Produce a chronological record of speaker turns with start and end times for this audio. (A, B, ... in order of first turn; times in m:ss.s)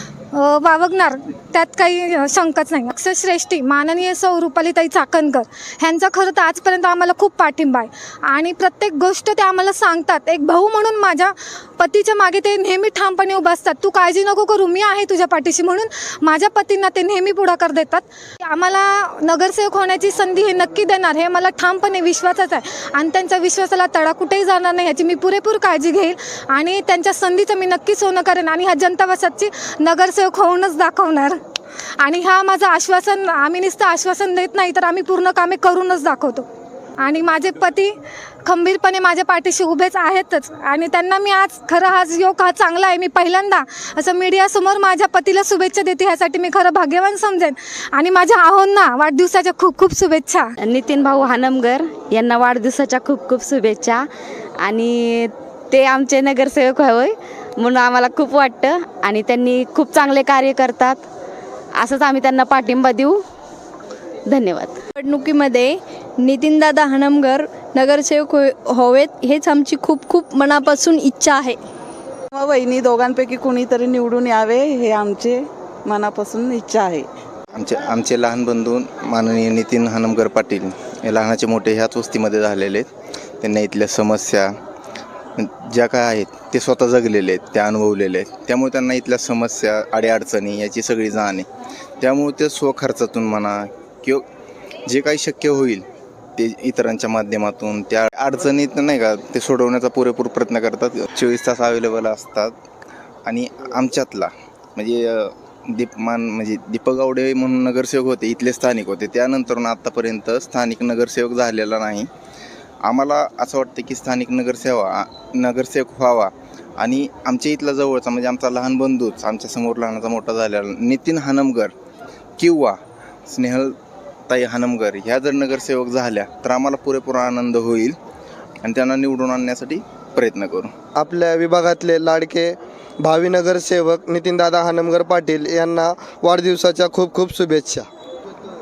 0:00.3-0:31.4 A
0:32.0-0:36.5 A
0:37.0-0:50.5 A
0:50.6-0:54.1 B
0:54.6-1:01.0 B
1:01.8-1:03.2 B
1:04.3-1:04.8 B
1:05.0-1:11.6 C
1:12.4-1:17.1 D
1:17.6-1:22.9 E
1:23.4-1:24.5 E
1:25.4-1:31.5 E
1:32.0-1:34.2 E
1:34.9-1:35.8 E
1:36.4-1:42.5 E
1:43.3-1:52.1 E
1:52.8-2:01.7 E
2:02.4-2:02.8 E
2:03.3-2:03.8 E
2:04.3-2:08.0 E
2:08.6-2:10.7 E
2:11.0-2:17.9 F